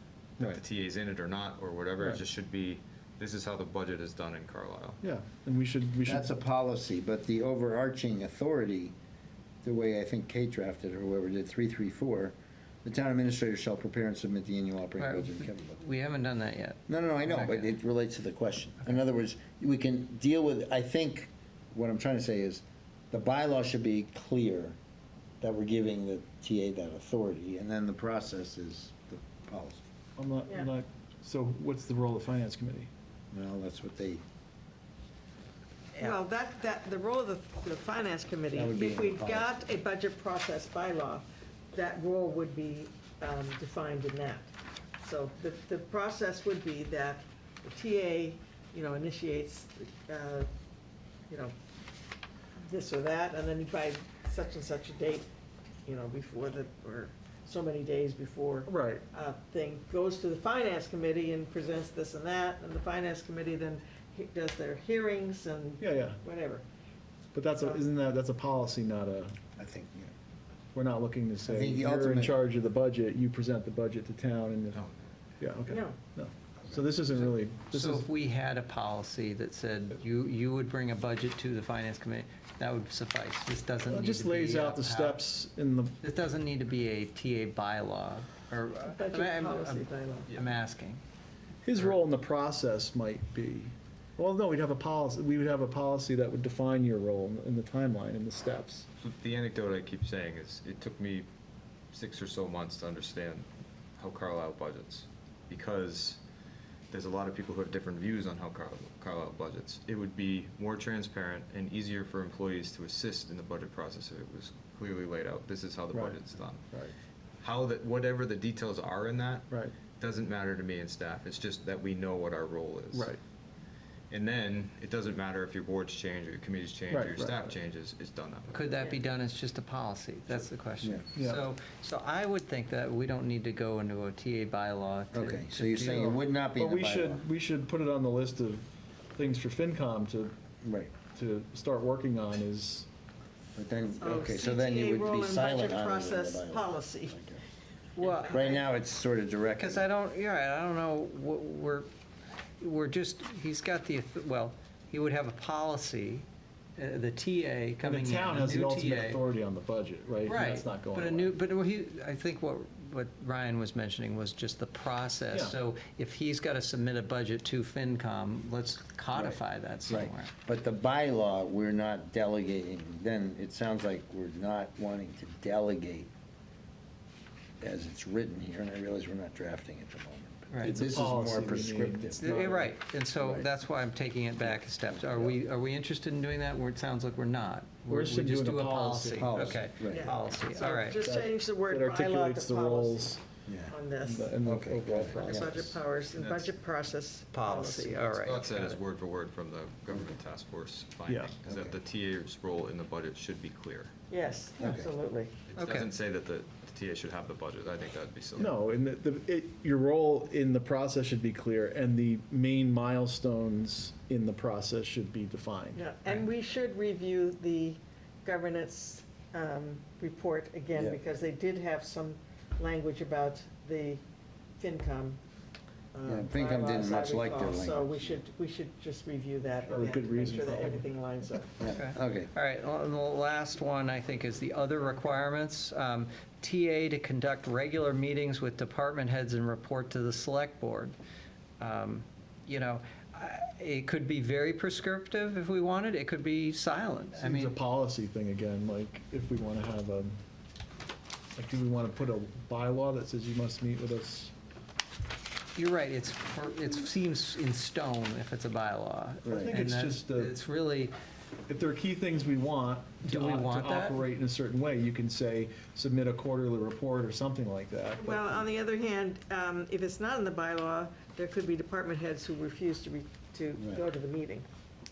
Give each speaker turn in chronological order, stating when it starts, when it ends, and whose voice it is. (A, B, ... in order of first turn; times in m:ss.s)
0:00.4-0:05.0 A
0:05.0-0:06.3 B
0:06.0-0:08.9 C
0:09.6-0:15.8 C
0:15.0-0:17.7 D
0:16.9-0:24.8 C
0:25.4-0:29.8 C
0:30.2-0:32.9 B
0:30.4-0:30.7 E
0:33.3-0:34.2 C
0:35.9-0:44.5 E
0:38.5-0:39.7 C
0:45.0-0:50.5 E
0:51.3-0:51.5 E
0:52.6-0:55.3 E
0:55.8-1:06.6 E
0:58.6-0:59.0 B
1:05.8-1:06.2 B
1:07.3-1:09.4 B
1:07.5-1:07.8 E
1:09.6-1:10.1 C
1:10.7-1:14.8 B
1:11.4-1:12.4 C
1:15.4-1:18.1 B
1:15.6-1:16.0 E
1:17.2-1:25.2 D
1:23.9-1:26.0 B
1:26.0-1:31.0 D
1:28.9-1:30.3 E
1:30.3-1:30.5 A
1:31.6-1:38.8 B
1:39.0-1:41.3 A
1:41.9-1:43.5 A
1:44.0-1:46.2 A
1:46.9-1:56.6 A
1:55.9-1:56.9 B
1:57.4-2:03.1 A
1:59.5-1:59.8 B
2:02.9-2:03.2 B
2:04.1-2:08.7 A
2:06.9-2:07.6 B
2:08.5-2:16.1 D
2:11.1-2:11.4 B
2:15.1-2:17.3 C
2:15.8-2:20.3 B
2:20.6-2:20.9 C
2:20.9-2:22.9 B
2:23.6-2:27.4 C
2:24.0-2:27.2 E
2:28.0-2:28.5 D
2:28.0-2:28.6 E
2:28.2-2:29.9 C
2:29.6-2:31.9 D
2:32.6-2:36.2 D
2:36.8-2:39.2 D
2:37.8-2:41.4 B
2:40.2-2:50.3 D
2:45.3-2:45.6 B
2:49.9-2:56.1 C
2:57.6-3:02.4 C
3:00.5-3:00.8 D
3:00.6-3:02.7 B
3:02.2-3:11.0 D
3:03.2-3:03.5 C
3:04.9-3:05.4 C
3:07.9-3:09.7 B
3:09.2-3:10.1 C
3:09.8-3:13.2 E
3:11.0-3:13.2 B
3:13.4-3:13.7 C
3:13.7-3:14.4 E
3:14.0-3:15.8 B
3:14.4-3:15.5 C
3:15.1-3:18.1 E
3:16.1-3:16.5 A
3:17.3-3:18.8 D
3:18.1-3:23.9 A
3:21.0-3:21.4 B
3:21.4-3:21.8 C
3:24.1-3:25.3 E
3:24.6-3:24.9 C
3:25.5-3:28.5 A
3:25.5-3:25.9 D
3:28.4-3:35.8 B
3:35.7-3:44.0 E
3:44.6-3:45.2 E
3:45.9-3:51.5 E
3:46.0-3:48.0 C
3:49.6-3:50.9 B
3:51.6-3:52.3 C
3:51.6-4:00.9 D
4:01.6-4:07.6 D
4:07.1-4:10.2 B
4:11.4-4:14.3 B
4:15.6-4:20.9 D
4:19.2-4:20.4 B
4:19.3-4:19.5 C
4:21.5-4:28.4 B
4:23.0-4:24.0 D
4:28.0-4:34.5 E